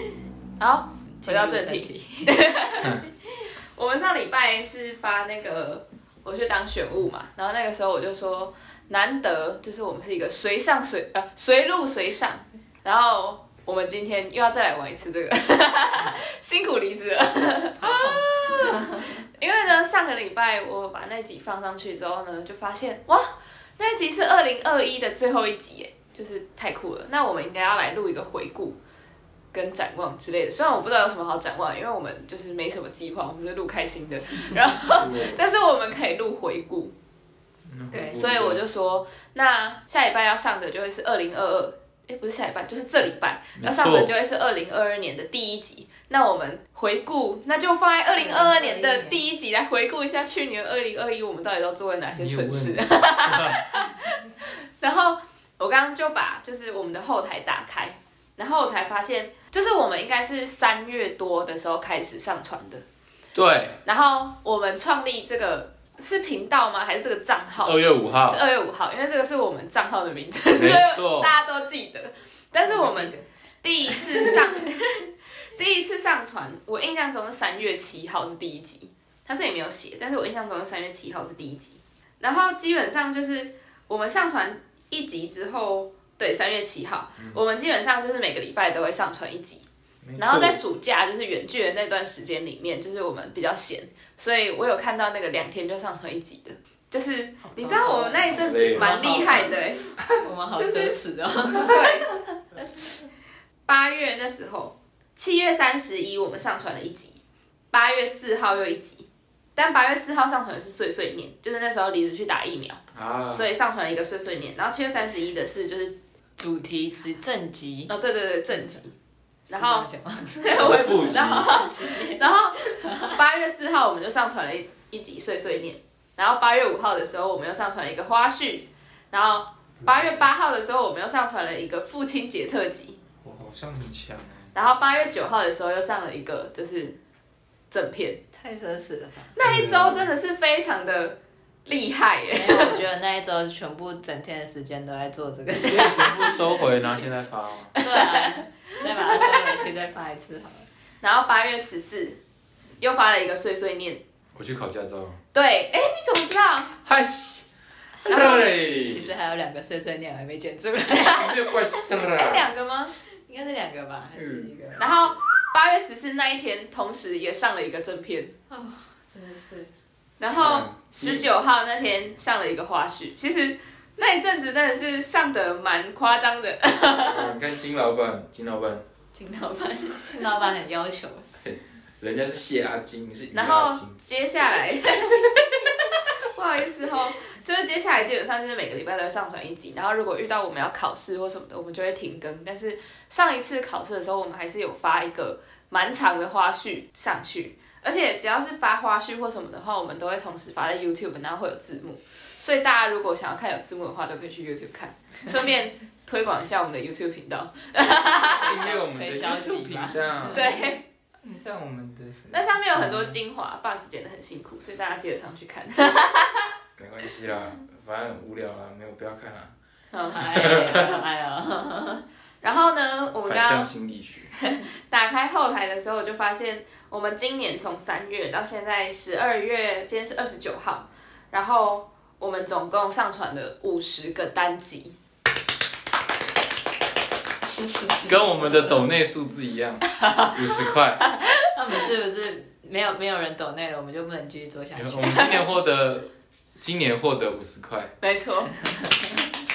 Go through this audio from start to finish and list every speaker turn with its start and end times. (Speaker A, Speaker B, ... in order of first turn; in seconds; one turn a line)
Speaker A: 0.6-28.8
Speaker B: 1.1-2.5
Speaker B: 17.8-19.2
Speaker A: 29.5-36.9
Speaker C: 34.8-35.4
Speaker C: 37.6-38.6
Speaker B: 37.9-38.2
Speaker A: 38.1-62.8
Speaker C: 43.6-44.1
Speaker B: 48.1-49.2
Speaker C: 52.1-53.6
Speaker C: 63.3-63.8
Speaker A: 63.8-89.6
Speaker C: 67.5-68.4
Speaker C: 70.5-71.3
Speaker B: 72.6-73.2
Speaker B: 73.8-74.6
Speaker C: 90.0-90.6
Speaker A: 90.2-99.8
Speaker B: 97.4-102.4
Speaker C: 98.2-98.9
Speaker A: 100.5-101.0
Speaker A: 101.5-102.1
Speaker A: 103.7-107.2
Speaker A: 107.7-116.0
Speaker C: 112.9-113.4
Speaker B: 116.4-117.9
Speaker A: 117.9-119.0
Speaker B: 118.5-118.8
Speaker B: 119.5-123.2
Speaker A: 119.5-119.9
Speaker A: 120.4-133.0
Speaker C: 120.5-121.5
Speaker C: 129.8-130.2
Speaker C: 133.2-134.5
Speaker A: 134.5-137.0
Speaker A: 137.7-138.2
Speaker B: 138.3-139.3
Speaker A: 139.3-142.8
Speaker C: 139.4-140.1
Speaker B: 142.3-146.4
Speaker C: 145.6-147.8
Speaker A: 147.8-148.4
Speaker B: 147.8-150.7
Speaker A: 149.0-149.5
Speaker A: 151.0-152.2
Speaker A: 152.8-154.0
Speaker C: 154.3-155.2
Speaker A: 155.3-156.8
Speaker C: 156.8-157.5
Speaker C: 158.0-159.1
Speaker A: 158.1-158.5
Speaker B: 158.8-161.3
Speaker C: 161.0-162.5
Speaker A: 161.2-162.9
Speaker B: 163.0-165.2
Speaker C: 164.2-164.5
Speaker A: 164.8-168.3
Speaker B: 168.5-169.7
Speaker A: 170.2-177.3
Speaker C: 170.3-171.3
Speaker C: 177.0-178.8
Speaker B: 179.1-181.3
Speaker C: 181.4-183.9
Speaker A: 183.3-208.6
Speaker B: 208.0-210.6
Speaker C: 208.2-210.5
Speaker A: 210.3-210.8
Speaker C: 211.2-213.2
Speaker A: 212.3-216.5
Speaker C: 216.8-219.5
Speaker A: 219.9-220.3
Speaker B: 220.1-222.0
Speaker C: 220.3-220.9
Speaker A: 222.4-223.7
Speaker C: 223.3-224.3
Speaker A: 224.4-234.9
Speaker B: 237.6-238.7
Speaker C: 238.0-241.0
Speaker A: 240.0-241.1
Speaker B: 241.5-245.3
Speaker C: 244.8-247.9
Speaker A: 248.0-248.6
Speaker B: 248.7-249.1